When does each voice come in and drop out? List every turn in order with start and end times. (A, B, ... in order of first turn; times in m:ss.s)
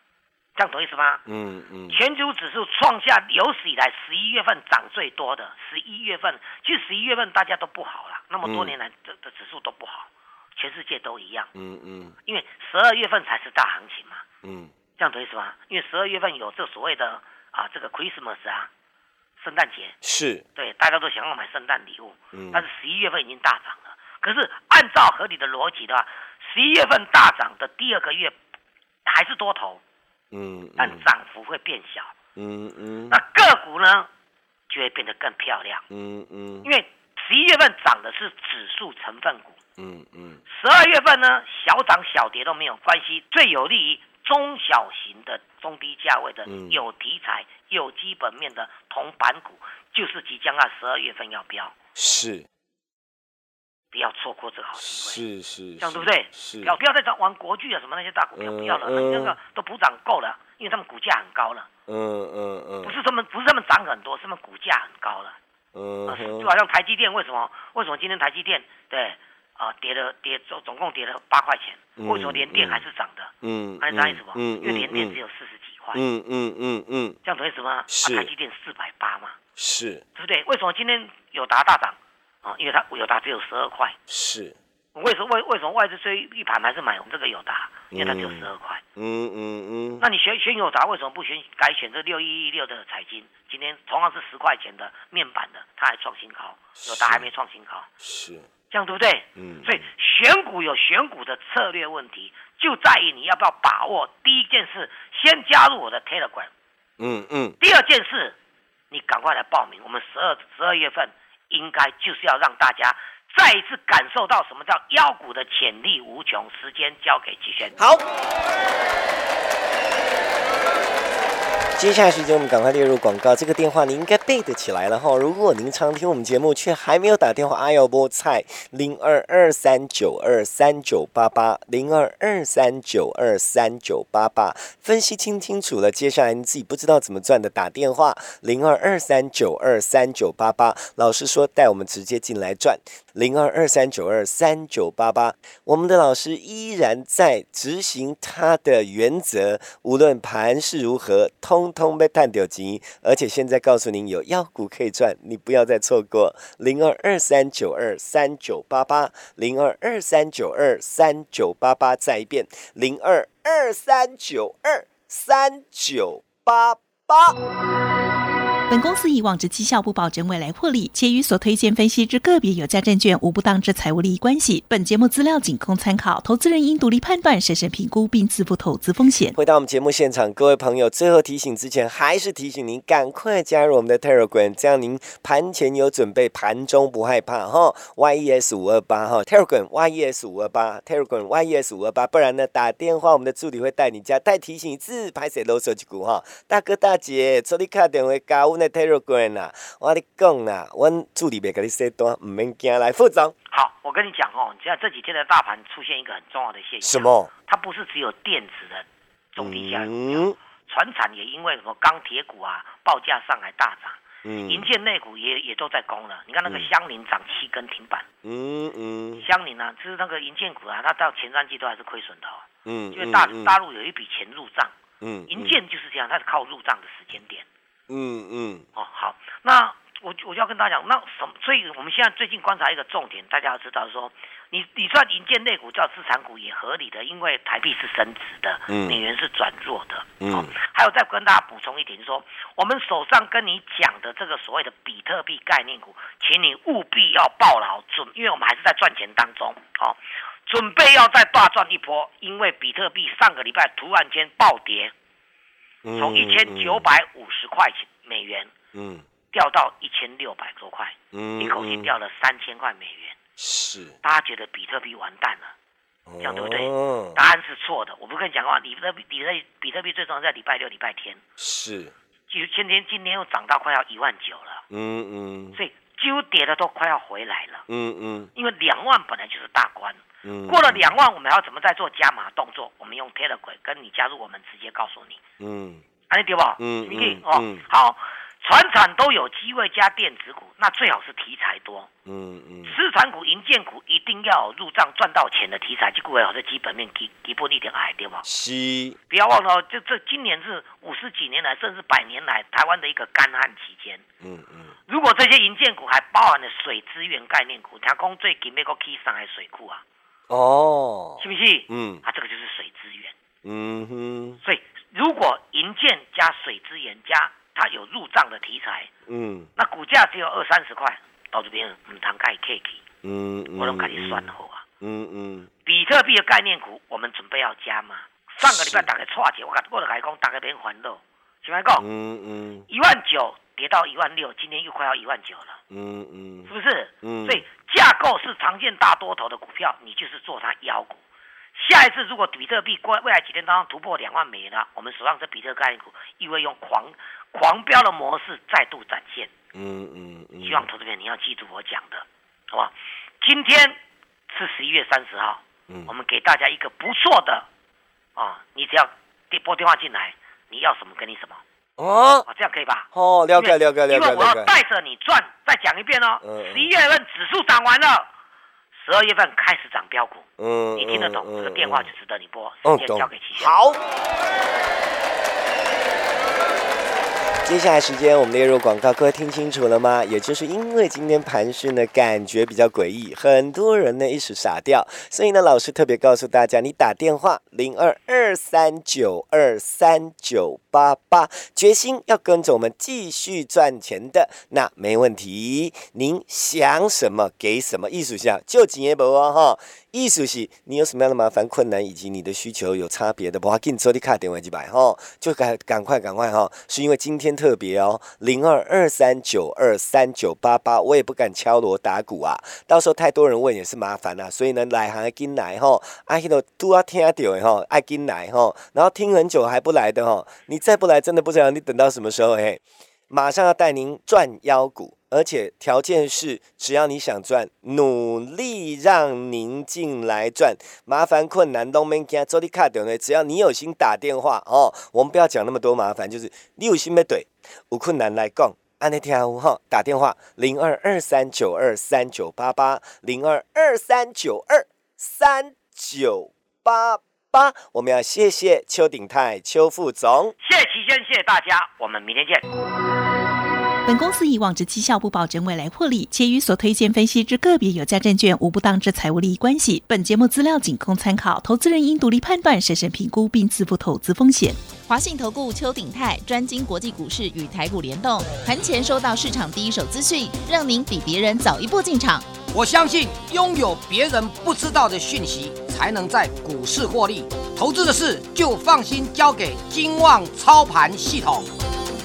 0:00.5-0:01.2 A
0:01.2-0:02.0 B
0:01.9-0:11.5 A
0:08.4-0:08.7 B
0:11.5-0:12.1 B
0:12.2-0:14.2 A
0:14.4-0:14.7 B
0:15.0-0:18.7 A
0:19.4-0:20.0 A
0:20.0-0:20.4 B
0:20.6-0:28.4 A
0:22.3-0:22.6 B
0:29.0-0:29.8 A
0:30.3-0:31.1 B
0:30.8-0:32.1 A
0:32.4-0:33.2 B
0:33.1-0:34.1 A
0:34.7-0:35.8 A
0:35.9-0:36.7 B
0:36.6-0:39.6 A
0:39.8-0:40.4 B
0:40.5-0:51.8 A
0:46.4-0:46.8 B
0:51.9-0:52.5 B
0:53.9-0:55.2 A
0:54.8-0:56.8 B
0:55.8-1:01.7 A
0:58.4-0:59.4 B
1:01.9-1:03.0 B
1:02.8-1:05.4 A
1:05.7-1:06.5 B
1:06.1-1:16.0 A
1:12.0-1:12.8 B
1:13.4-1:15.2 B
1:15.9-1:17.2 B
1:17.2-1:19.4 A
1:17.9-1:18.3 B
1:19.6-1:20.0 B
1:20.2-1:24.0 A
1:24.1-1:24.6 B
1:24.9-1:28.8 A
1:27.9-1:30.0 B
1:30.0-1:37.9 A
1:36.8-1:37.3 B
1:38.0-1:38.5 B
1:38.7-1:46.5 A
1:39.4-1:39.8 B
1:47.0-1:47.6 B
1:47.6-1:48.4 A
1:48.9-1:57.8 A
1:57.8-1:58.0 B
2:01.8-2:47.4 B
2:48.7-2:59.4 C
2:59.3-3:23.3 B
3:23.5-3:38.0 A
3:26.8-3:27.3 B
3:29.4-3:30.4 B
3:34.2-3:34.7 B
3:36.4-3:36.7 B
3:38.2-3:39.2 B
3:39.2-3:44.7 A
3:42.6-3:43.6 B
3:45.0-3:45.6 B
3:45.3-3:47.4 A
3:47.9-3:48.6 B
3:48.7-4:14.9 A
3:58.7-3:59.0 B
4:00.2-4:00.5 B
4:15.8-4:16.9 B
4:15.9-4:18.5 A
4:18.7-4:19.0 B
4:19.3-4:23.2 A
4:21.1-4:21.9 B
4:23.4-4:24.0 B
4:24.0-4:25.5 A
4:26.1-4:27.2 B
4:26.2-4:31.2 A
4:31.4-4:31.9 B
4:32.3-4:34.6 A
4:34.7-4:35.6 B
4:35.5-4:37.7 A
4:37.7-4:38.3 B
4:38.3-4:45.2 A
4:40.2-4:41.0 B
4:45.4-4:45.8 B
4:46.1-4:51.9 A
4:46.6-4:47.6 B
4:52.0-4:52.8 B
4:52.6-4:58.2 A
4:58.2-4:59.0 B
4:59.1-5:04.0 A
5:04.2-5:04.7 B
5:04.9-5:09.8 A
5:10.3-5:12.0 B
5:11.2-5:13.1 A
5:13.4-5:14.4 B
5:14.4-5:18.9 A
5:19.1-5:19.5 B
5:19.6-5:22.8 A
5:23.0-5:25.5 B
5:23.5-5:24.6 A
5:25.6-5:31.8 A
5:28.4-5:28.9 B
5:31.8-5:32.7 B
5:32.7-5:35.6 A
5:35.7-5:36.5 B
5:36.4-5:41.0 A
5:37.0-5:37.4 B
5:41.5-5:49.3 A
5:49.5-5:50.7 B
5:50.4-5:57.5 A
5:58.2-6:01.4 A
6:01.8-6:02.2 B
6:02.2-6:08.1 A
6:02.9-6:04.6 B
6:06.2-6:06.7 B
6:08.7-6:13.6 A
6:10.4-6:11.9 B
6:12.6-6:13.8 B
6:17.4-7:30.3 B
7:30.4-7:32.4 A
7:33.8-7:44.6 C
7:44.9-7:52.3 D
7:52.5-8:01.5 E